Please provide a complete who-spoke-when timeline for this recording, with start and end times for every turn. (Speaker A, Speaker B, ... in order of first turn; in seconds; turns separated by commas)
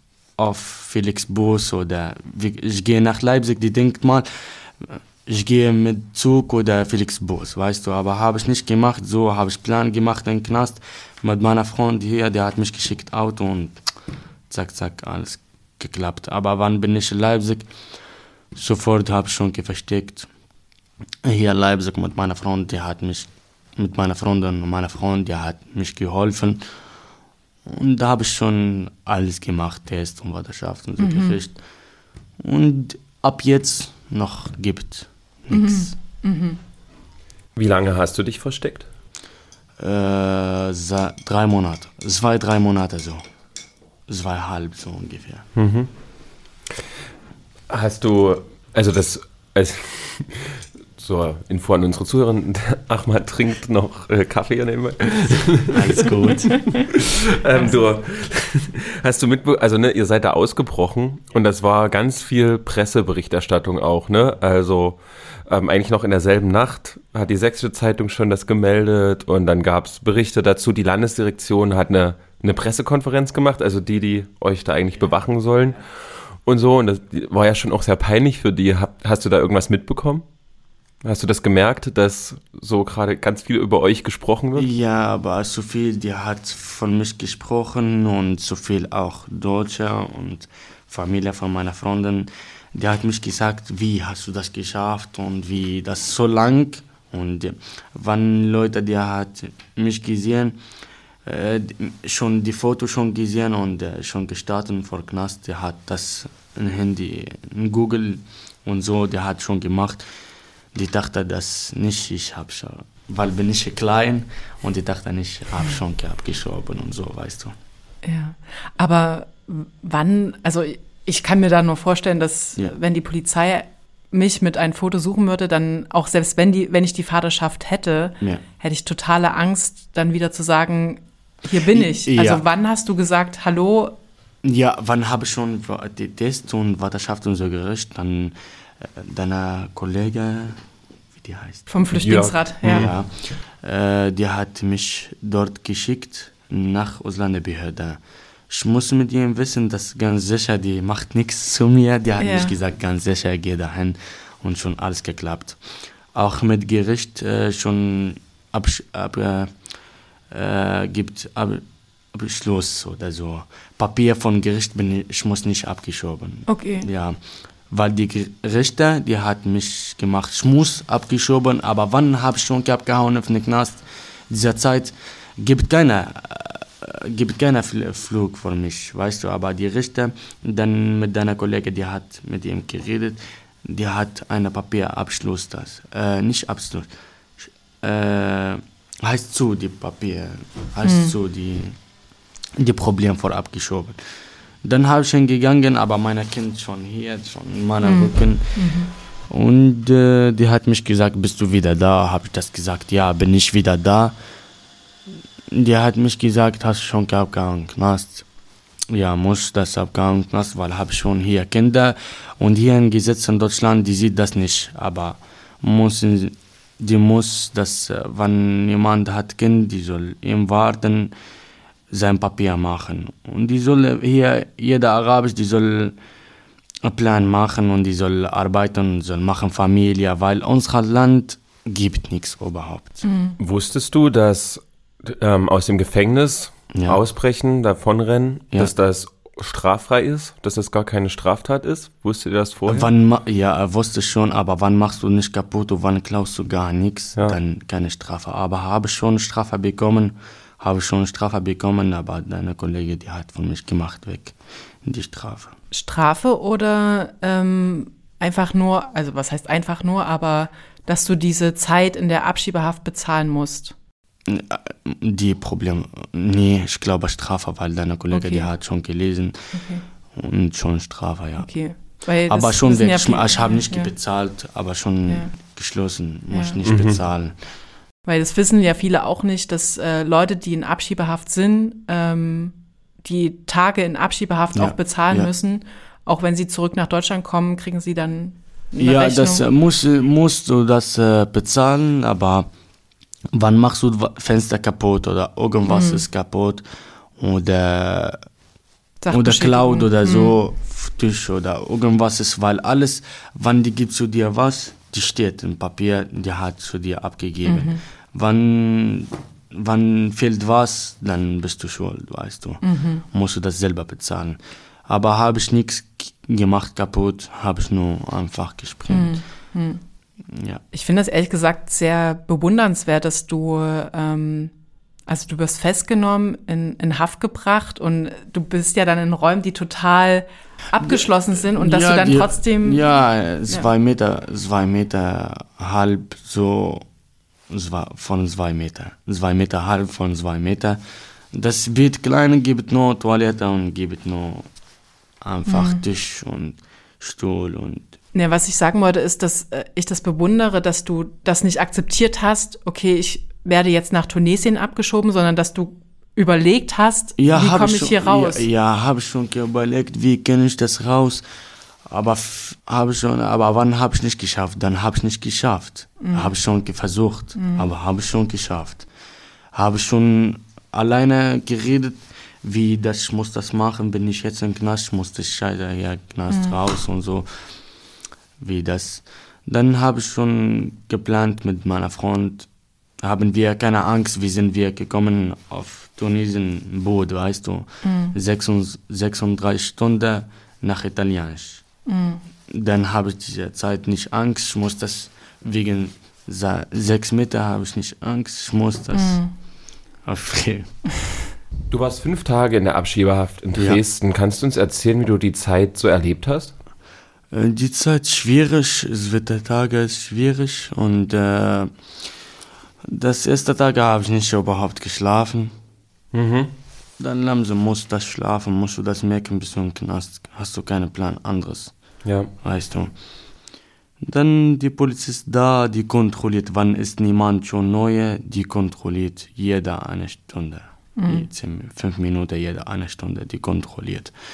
Speaker A: 0.4-13.8, Speaker A: 14.5-17.7, Speaker A: 18.5-20.3, Speaker A: 21.2-26.6, Speaker A: 27.7-31.6, Speaker B: 31.0-31.4, Speaker A: 32.4-36.0, Speaker B: 35.5-36.6, Speaker C: 37.5-38.9, Speaker A: 39.8-43.2, Speaker A: 44.1-45.5, Speaker C: 45.6-45.9, Speaker C: 47.7-56.1, Speaker A: 55.7-56.7, Speaker C: 56.9-80.2, Speaker C: 81.0-84.7, Speaker A: 84.6-100.6, Speaker A: 101.3-110.0, Speaker A: 110.7-117.5, Speaker B: 118.0-134.0, Speaker A: 131.7-132.4, Speaker A: 134.4-140.6, Speaker A: 141.2-141.7, Speaker B: 141.7-142.9, Speaker C: 141.9-142.9, Speaker A: 142.7-155.6, Speaker B: 152.2-152.5, Speaker A: 156.1-159.5, Speaker A: 160.3-167.2, Speaker B: 166.5-166.9, Speaker A: 167.7-186.9, Speaker A: 187.4-191.8, Speaker B: 190.8-191.2, Speaker A: 192.6-204.2, Speaker B: 197.8-198.9, Speaker A: 205.5-208.2, Speaker A: 208.9-221.1, Speaker A: 221.9-226.0, Speaker A: 226.8-233.0, Speaker B: 233.0-233.4, Speaker C: 233.4-242.9, Speaker A: 236.7-237.0, Speaker A: 242.7-255.6, Speaker B: 255.7-263.7, Speaker A: 264.3-269.5, Speaker B: 268.1-268.5, Speaker B: 269.5-269.8, Speaker A: 270.1-271.6, Speaker B: 271.4-273.9, Speaker A: 272.3-277.4, Speaker C: 276.6-277.0, Speaker B: 278.1-289.4, Speaker A: 284.6-285.3, Speaker A: 288.8-292.5, Speaker A: 293.3-296.6, Speaker B: 295.7-296.0, Speaker A: 297.2-298.2, Speaker B: 299.0-300.4, Speaker A: 299.1-319.2, Speaker B: 307.4-307.8, Speaker B: 312.6-313.0, Speaker B: 318.9-319.8, Speaker A: 320.3-320.6, Speaker B: 320.7-324.5, Speaker B: 325.1-332.8, Speaker A: 330.8-336.9, Speaker A: 337.5-344.5, Speaker A: 345.2-347.9, Speaker B: 345.5-345.8, Speaker B: 348.1-358.5, Speaker A: 357.2-361.2, Speaker A: 361.9-368.9, Speaker B: 366.0-366.3, Speaker B: 367.4-367.6, Speaker A: 369.5-377.6, Speaker A: 378.4-382.5, Speaker A: 383.0-391.6, Speaker B: 387.8-388.1, Speaker B: 391.9-392.2, Speaker A: 392.5-399.2, Speaker B: 398.9-399.3, Speaker A: 400.1-400.8, Speaker C: 401.7-406.5, Speaker A: 407.3-411.7, Speaker A: 412.9-415.5, Speaker C: 416.1-416.5, Speaker A: 417.0-421.8, Speaker C: 422.1-422.3, Speaker A: 422.4-422.9, Speaker A: 424.0-434.1, Speaker B: 431.0-431.3